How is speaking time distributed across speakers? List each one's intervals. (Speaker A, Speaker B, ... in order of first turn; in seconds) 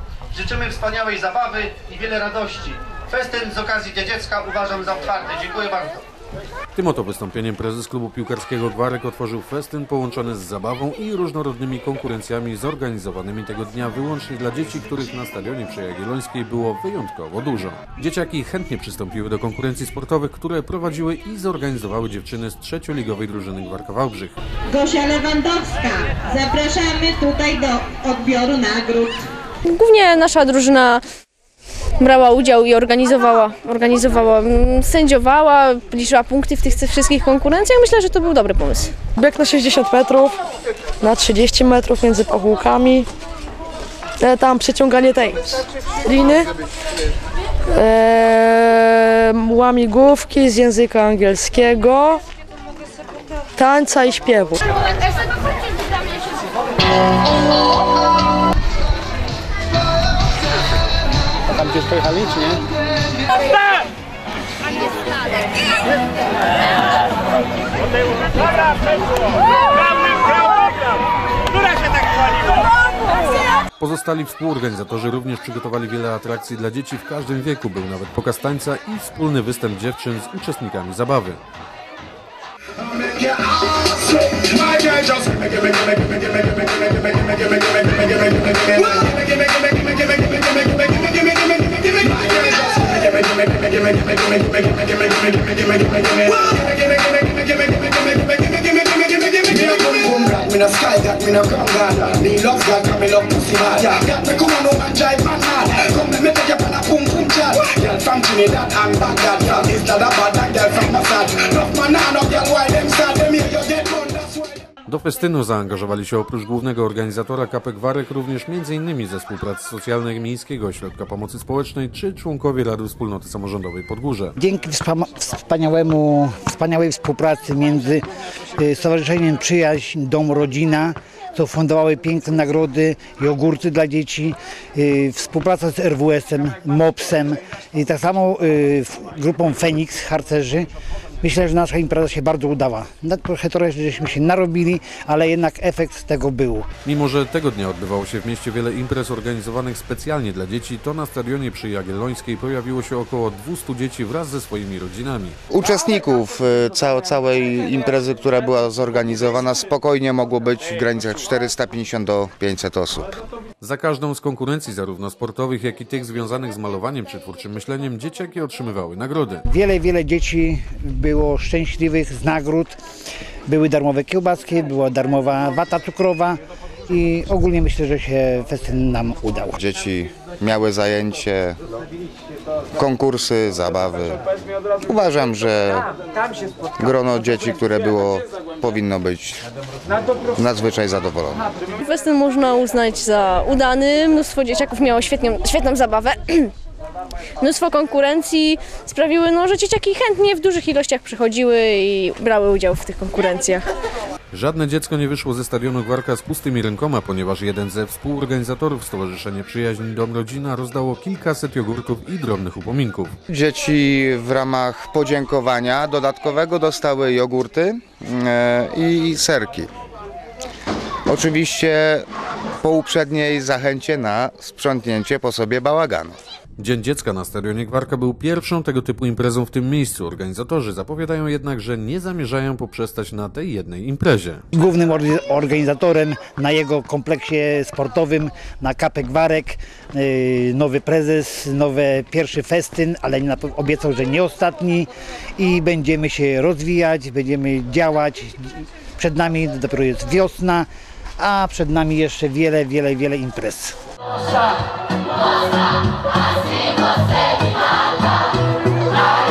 Speaker A: 0.3-6.0
Speaker B: 6.8-24.4, 73.8-81.4, 114.9-124.4, 146.8-155.4, 163.6-169.4, 204.3-213.2, 226.6-234.4
Speaker C: 24.7-29.2
Speaker D: 29.7-31.0, 32.0-39.0, 191.7-196.5, 197.4-203.6
Speaker E: 39.2-40.4, 41.0-43.1, 44.2-46.5, 47.7-52.2, 53.6-54.6
Speaker F: 82.8-114.6
Speaker G: 124.4-128.1, 128.6-140.7, 141.2-146.7, 169.5-172.8, 173.5-179.6, 234.5-250.7, 251.2-253.7
Speaker H: 155.5-163.2, 179.6-181.6, 182.8-184.2, 184.8-185.9, 186.8-189.4, 190.3-191.4, 213.3-219.7, 221.1-222.1, 222.6-226.2